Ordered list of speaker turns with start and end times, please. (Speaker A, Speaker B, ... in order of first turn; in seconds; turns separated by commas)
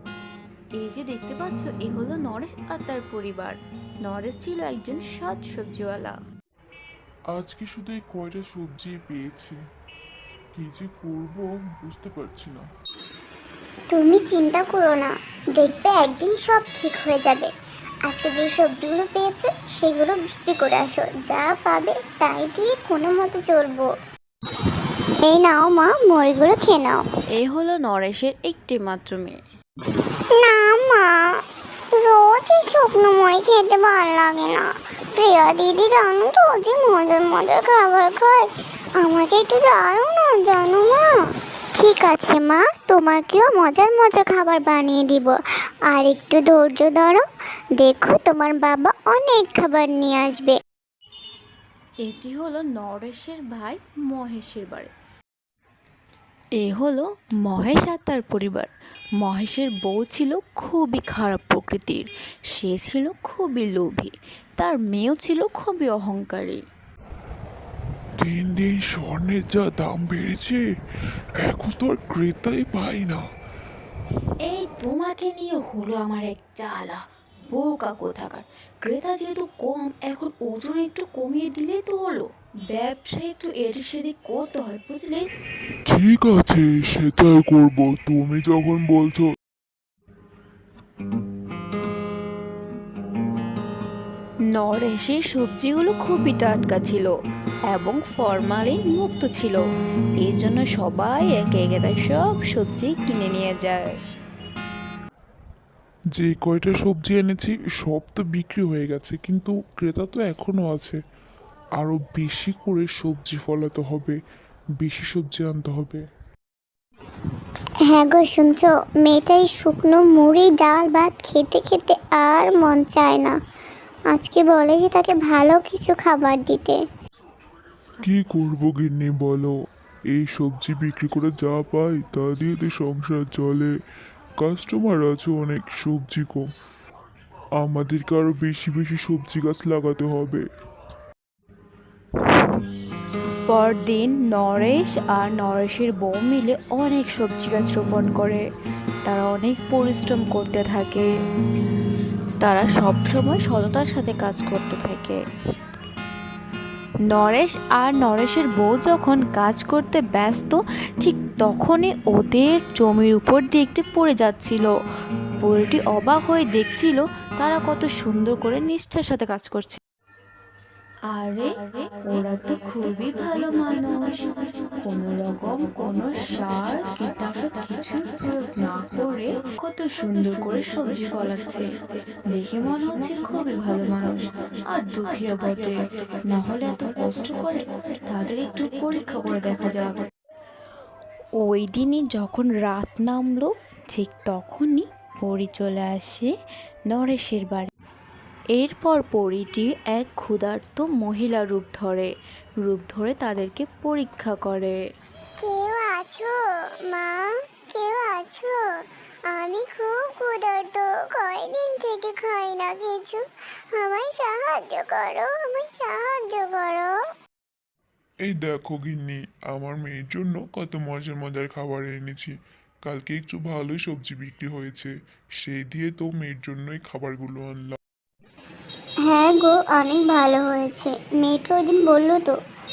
Speaker A: 0.8-6.2, Speaker B: 7.3-9.6, Speaker B: 10.5-12.6, Speaker C: 13.9-17.5, Speaker C: 18.1-23.9, Speaker C: 25.2-27.0, Speaker A: 27.4-29.4, Speaker C: 30.3-31.4, Speaker C: 31.9-41.2, Speaker C: 41.8-45.4, Speaker C: 45.9-47.2, Speaker C: 47.8-50.6, Speaker A: 52.0-54.9, Speaker A: 56.6-66.6, Speaker B: 68.2-70.6, Speaker B: 71.4-73.2, Speaker A: 74.5-85.2, Speaker B: 85.9-89.2, Speaker A: 94.5-97.1, Speaker A: 97.7-99.6, Speaker A: 100.2-104.0, Speaker B: 106.2-111.0, Speaker B: 111.8-114.2, Speaker B: 114.8-116.0, Speaker C: 117.9-123.4, Speaker C: 124.1-126.8, Speaker B: 128.0-129.5, Speaker B: 130.1-133.7, Speaker B: 134.4-136.4, Speaker B: 137.6-140.4, Speaker A: 143.5-148.4, Speaker A: 149.1-151.1, Speaker A: 152.4-155.2, Speaker A: 157.1-164.7, Speaker A: 165.4-169.8, Speaker A: 171.1-174.1, Speaker A: 174.8-181.6, Speaker A: 182.3-185.7, Speaker A: 186.2-190.1, Speaker A: 191.4-196.3, Speaker A: 196.9-197.7, Speaker A: 198.5-202.1, Speaker A: 202.6-204.8, Speaker C: 205.4-216.9, Speaker B: 218.2-222.3, Speaker B: 222.8-227.8, Speaker C: 229.1-232.3